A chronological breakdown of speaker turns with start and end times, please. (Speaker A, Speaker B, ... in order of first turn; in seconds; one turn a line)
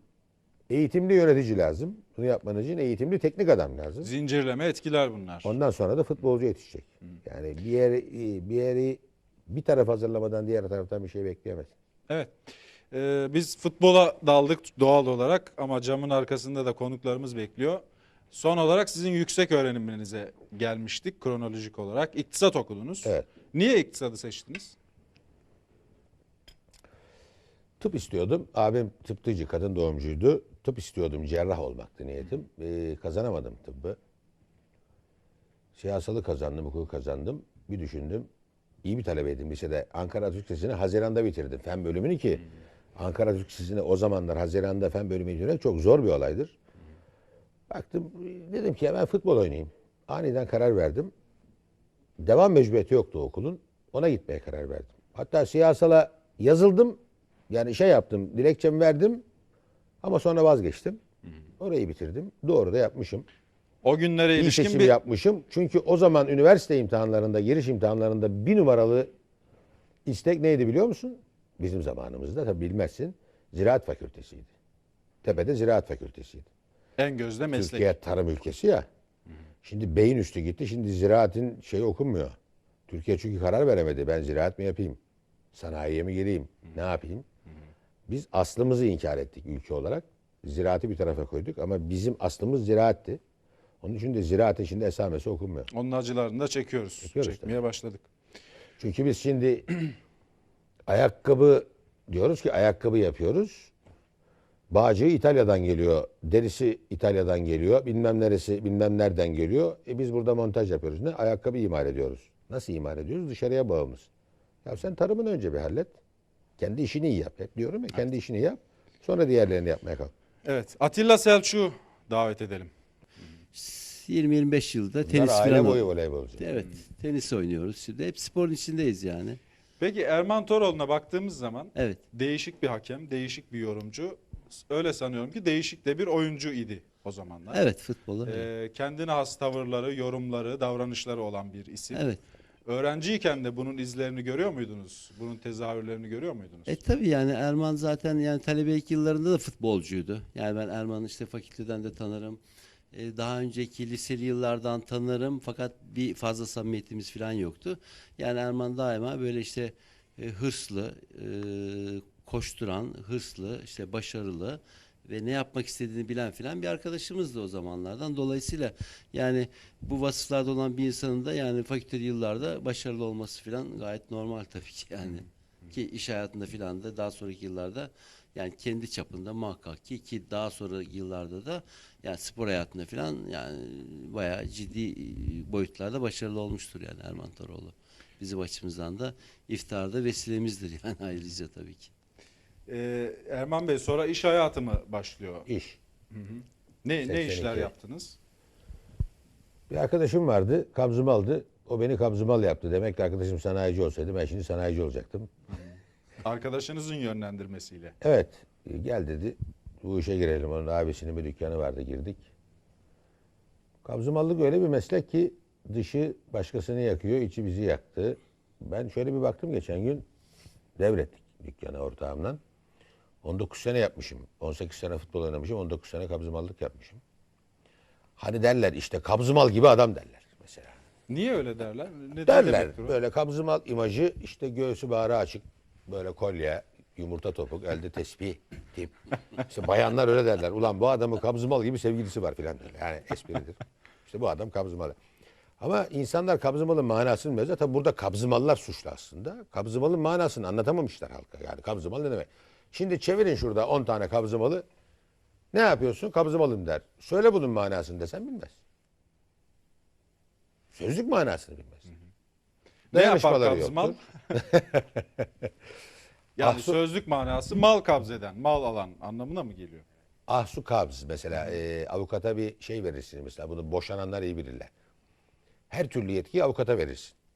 Speaker A: 0.7-4.1
Speaker B: 4.0-5.6
Speaker A: 5.4-11.7
Speaker B: 12.1-12.4
Speaker B: 12.9-24.8
Speaker A: 27.8-34.0
Speaker A: 35.8-38.3
Speaker A: 38.8-42.4
Speaker A: 43.0-46.6
Speaker A: 47.7-51.1
Speaker A: 52.2-57.0
Speaker A: 57.5-59.2
Speaker A: 60.0-61.0
Speaker A: 61.6-63.3
Speaker B: 63.8-65.0
Speaker A: 64.4-69.1
Speaker A: 70.1-74.5
Speaker A: 75.2-76.5
Speaker B: 77.0-78.0
Speaker A: 77.5-78.9
Speaker A: 79.6-82.4
Speaker A: 82.9-85.0
Speaker A: 85.5-87.3
Speaker A: 88.1-93.2
Speaker A: 93.8-95.7
Speaker B: 95.7-98.1
Speaker A: 97.0-97.5
Speaker A: 98.8-99.8
Speaker A: 100.9-103.7
Speaker A: 104.7-114.1
Speaker A: 114.7-115.9
Speaker A: 116.6-120.1
Speaker B: 120.5-122.7
Speaker C: 123.5-125.8
Speaker A: 125.0-126.4
Speaker C: 126.4-129.4
Speaker B: 129.8-137.7
Speaker C: 131.8-132.0
Speaker C: 137.5-138.5
Speaker B: 138.2-142.1
Speaker C: 141.9-142.2
Speaker B: 142.7-146.8
Speaker C: 146.7-152.4
Speaker C: 152.9-191.9
Speaker B: 192.7-195.5
Speaker A: 195.5-195.8
Speaker B: 196.1-198.2
Speaker A: 197.0-197.7
Speaker A: 199.7-205.3
Speaker B: 206.2-207.9
Speaker A: 208.0-212.2
Speaker A: 213.8-220.1
Speaker A: 220.8-222.4
Speaker A: 223.2-227.0
Speaker A: 228.2-230.8
Speaker B: 231.1-232.9
Speaker A: 232.3-245.0
Speaker A: 245.6-254.7
Speaker A: 255.5-258.6
Speaker A: 260.7-261.9
Speaker B: 262.9-264.4
Speaker A: 262.9-265.0
Speaker B: 266.4-269.9
Speaker A: 266.4-266.8
Speaker A: 270.3-274.7
Speaker A: 275.7-277.1